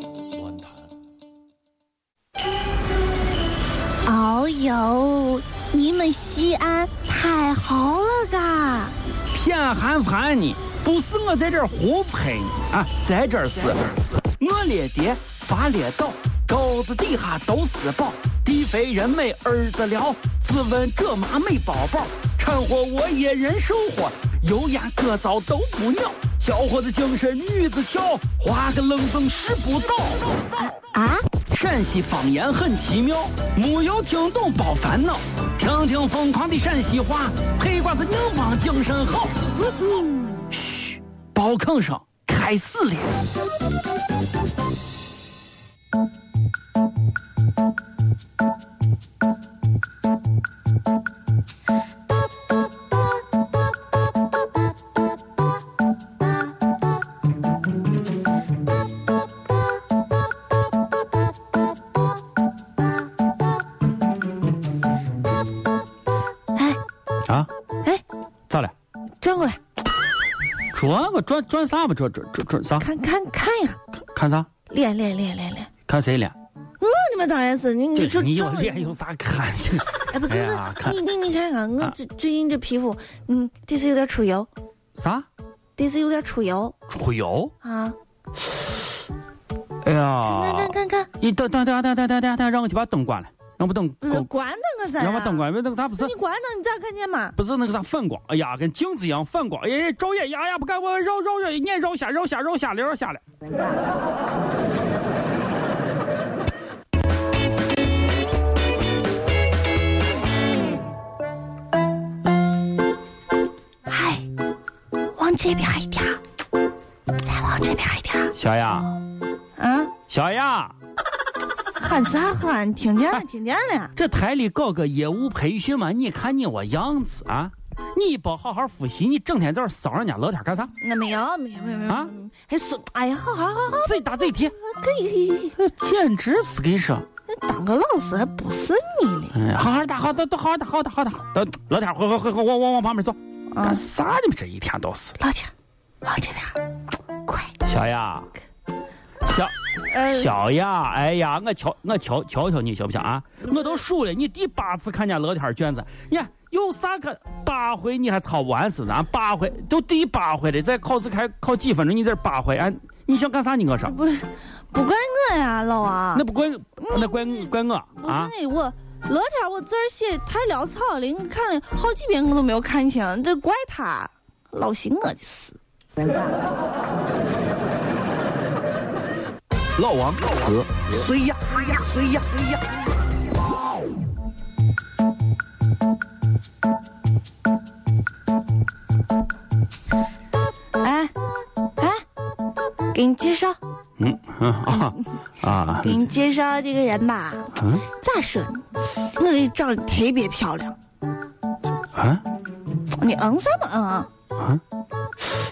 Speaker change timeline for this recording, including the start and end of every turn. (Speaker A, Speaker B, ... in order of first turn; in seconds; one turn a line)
Speaker A: 4.0-8.9
Speaker B: 9.3-30.4
Speaker A: 30.9-31.3
Speaker B: 31.5-39.4
Speaker A: 39.8-40.1
Speaker B: 40.5-43.2
Speaker A: 66.5-66.8
Speaker A: 69.2-69.6
Speaker B: 70.7-72.9
Speaker A: 72.8-73.8
Speaker B: 74.1-74.5
Speaker A: 74.7-75.7
Speaker B: 75.9-76.3
Speaker A: 76.8-78.9
Speaker B: 78.0-81.0
Speaker A: 80.1-84.5
Speaker B: 85.0-85.3
Speaker A: 85.8-86.8
Speaker B: 86.9-87.5
Speaker A: 87.6-88.0
Speaker B: 89.8-94.3
Speaker A: 90.2-91.1
Speaker A: 94.0-97.4
Speaker B: 95.0-96.1
Speaker B: 97.4-103.2
Speaker A: 113.9-114.3
Speaker A: 115.1-116.2
Speaker A: 117.2-118.3
Speaker B: 118.3-118.9
Speaker A: 119.6-119.9
Speaker B: 120.1-120.7
Speaker A: 121.8-123.9
Speaker B: 124.0-130.7
Speaker A: 130.8-135.6
Speaker B: 133.8-134.6
Speaker B: 135.6-137.1
Speaker A: 137.3-139.4
Speaker B: 139.3-145.2
Speaker A: 143.5-143.8
Speaker A: 145.2-145.5
Speaker A: 146.0-146.6
Speaker A: 147.2-147.6
Speaker B: 147.6-148.3
Speaker B: 149.2-149.5
Speaker A: 149.9-150.3
Speaker B: 150.1-163.9
Speaker A: 163.8-166.3
Speaker B: 166.2-168.3
Speaker A: 166.8-175.6
Speaker C: 179.8-182.4
Speaker A: 190.8-191.1
Speaker A: 191.8-192.0
Speaker A: 192.9-193.6
Speaker B: 194.0-196.0
Speaker A: 195.8-198.7
Speaker B: 197.6-197.8
Speaker A: 199.2-200.8
Speaker B: 201.9-202.2
Speaker A: 203.0-204.1